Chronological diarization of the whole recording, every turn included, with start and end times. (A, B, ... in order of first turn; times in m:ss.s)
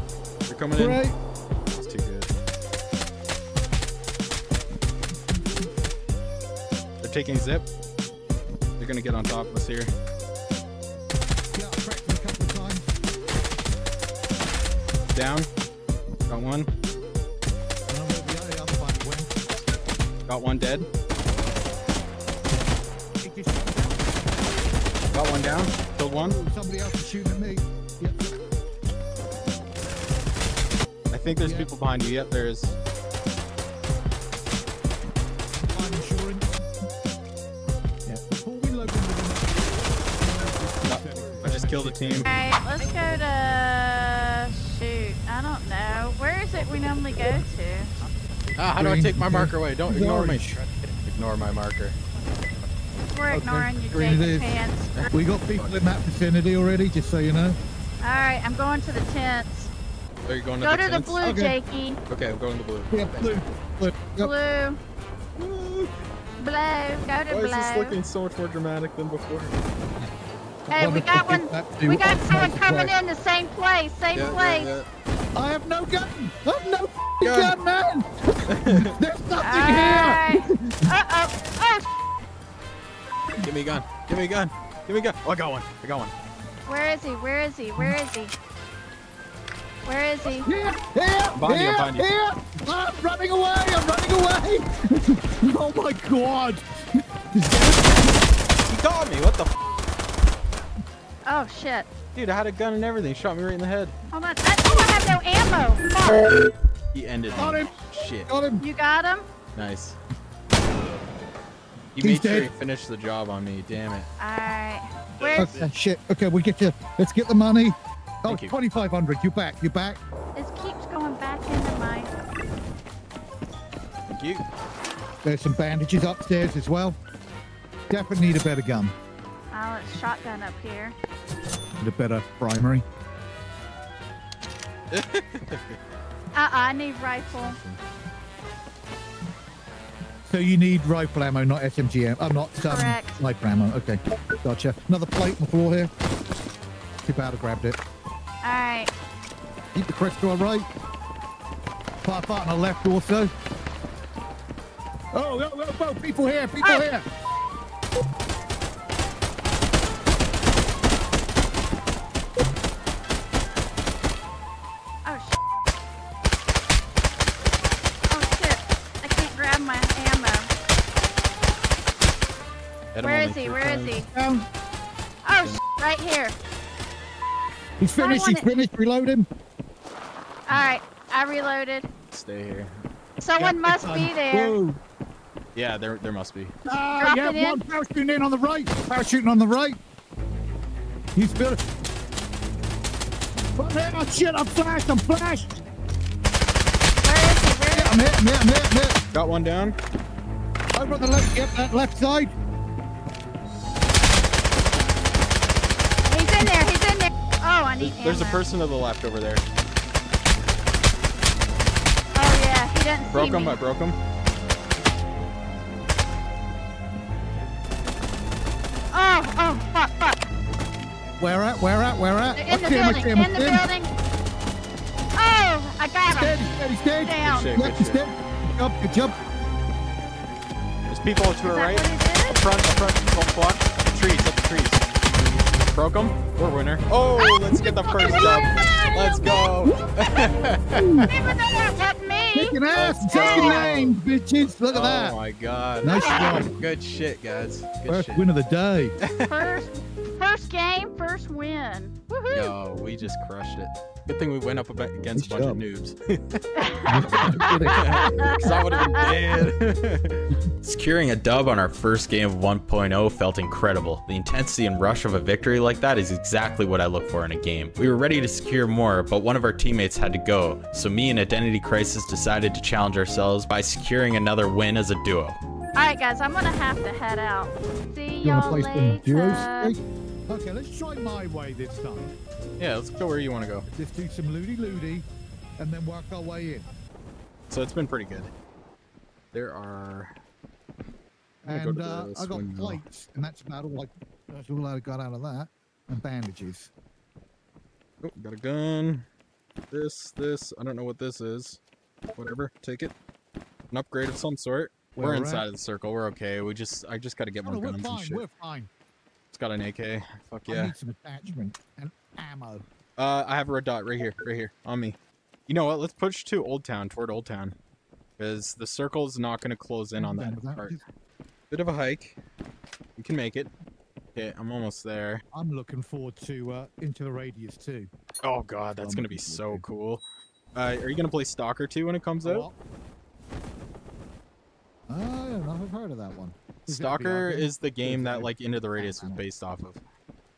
0:00.5-0:01.1 A
0:00.8-0:01.2 B
0:01.7-0:02.3 A
0:07.0-0:07.7 A
0:08.8-0:09.9 A
0:11.6-0:12.9 B
0:15.1-0:15.5 A
0:16.3-0:16.7 A
0:17.9-0:19.4 B
0:20.3-0:20.9 A
0:23.2-0:24.5 B
0:25.1-0:26.4 A
0:26.2-0:28.2 B
0:31.1-0:32.8 A
0:31.4-0:31.7 B
0:35.6-0:36.5 B
0:38.1-0:42.4 B
0:40.8-0:42.3 A
0:42.2-0:47.9 C
0:48.0-0:50.6 B
0:48.6-0:50.5 A
0:51.1-0:52.0 A
0:53.1-0:54.9 C
0:53.3-0:54.5 B
0:55.0-0:55.8 A
0:55.1-0:57.6 B
0:58.0-0:59.7 C
1:00.3-1:01.2 A
1:00.6-1:02.0 C
1:01.2-1:01.6 B
1:02.1-1:03.3 A
1:02.9-1:04.3 B
1:04.2-1:04.8 C
1:05.4-1:05.9 A
1:06.4-1:08.0 C
1:07.3-1:09.6 A
1:10.7-1:12.9 B
1:10.7-1:14.7 C
1:14.1-1:14.8 A
1:15.4-1:18.1 B
1:17.2-1:17.6 A
1:18.6-1:18.9 A
1:18.6-1:20.4 B
1:19.4-1:21.8 C
1:23.4-1:26.1 A
1:26.7-1:28.3 C
1:29.9-1:30.5 C
1:30.4-1:38.1 B
1:31.4-1:32.1 A
1:38.7-1:39.5 A
1:41.2-1:41.9 C
1:42.2-1:44.0 A
1:44.1-1:46.2 C
1:46.9-1:48.3 A
1:47.4-1:48.6 B
1:48.6-1:49.3 C
1:49.6-1:50.0 A
1:52.0-1:54.1 A
1:52.0-1:52.5 B
1:54.2-1:55.6 C
1:55.2-1:55.7 A
1:55.4-2:00.0 B
1:58.3-1:58.5 A
2:00.4-2:02.1 C
2:04.1-2:04.4 A
2:05.2-2:07.0 B
2:07.9-2:09.0 B
2:09.5-2:11.0 C
2:11.8-2:12.8 B
2:14.9-2:15.8 A
2:16.3-2:17.6 C
2:20.2-2:25.9 B
2:22.6-2:23.2 C
2:27.0-2:27.8 B
2:28.4-2:28.9 C
2:29.8-2:30.6 B
2:32.0-2:33.3 B
2:35.1-2:37.0 B
2:36.6-2:36.9 C
2:45.0-2:45.4 C
2:48.1-2:50.5 C
2:53.0-2:53.9 A
2:53.0-2:54.1 C
2:54.0-2:54.4 B
2:55.2-2:56.3 C
2:57.8-2:59.3 B
2:58.0-2:58.5 C
3:00.5-3:01.9 C
3:02.1-3:02.7 A
3:03.2-3:04.6 C
3:03.4-3:04.8 B
3:05.6-3:06.5 A
3:06.7-3:09.8 B
3:07.0-3:07.6 C
3:11.2-3:11.6 B
3:13.6-3:15.6 B
3:17.0-3:18.0 C
3:17.7-3:19.0 B
3:19.1-3:19.8 A
3:20.7-3:22.4 B
3:26.1-3:28.5 C
3:27.8-3:29.4 A
3:32.1-3:33.6 C
3:33.1-3:34.0 A
3:38.9-3:40.2 C
3:41.2-3:43.7 B
3:42.3-3:43.9 C
3:45.2-3:46.4 C
3:46.1-3:49.2 B
3:47.0-3:47.5 C
3:47.2-3:48.0 A
3:50.9-3:54.8 A
3:51.4-3:52.4 C
3:55.7-4:00.9 A
3:58.1-3:59.3 C
4:00.7-4:01.1 B
4:01.1-4:02.6 C
4:02.4-4:05.2 B
4:02.7-4:04.0 A
4:03.1-4:03.6 C
4:04.7-4:08.2 A
4:05.8-4:06.6 B
4:05.9-4:06.4 C
4:07.9-4:09.0 B
4:09.0-4:09.6 A
4:09.3-4:12.6 C
4:12.3-4:16.4 A
4:15.2-4:15.6 B
4:16.6-4:19.1 C
4:16.9-4:18.4 B
4:17.7-4:20.2 A
4:20.6-4:35.4 D
4:35.8-4:39.7 C
4:38.2-4:42.1 B
4:42.6-4:43.7 A
4:43.7-4:45.1 B
4:45.6-4:46.7 B
4:47.5-4:48.3 A
4:49.3-4:50.1 A
4:51.4-4:56.7 B
4:51.5-4:52.8 A
4:58.0-4:59.1 A
4:59.7-5:01.6 A
5:02.2-5:02.9 A
5:03.7-5:08.2 A
5:05.0-5:05.5 B
5:07.4-5:08.7 B
5:09.3-5:10.7 A
5:10.5-5:12.6 B
5:13.0-5:17.6 A
5:18.2-5:20.8 A
5:20.0-5:20.8 B
5:21.5-5:22.2 A
5:23.0-5:23.5 A
5:24.2-5:25.2 A
5:25.3-5:27.9 B
5:28.2-5:30.0 A
5:28.8-5:29.6 B
5:30.6-5:32.5 A
5:32.2-5:32.6 B
5:34.9-5:39.2 B
5:36.7-5:39.8 A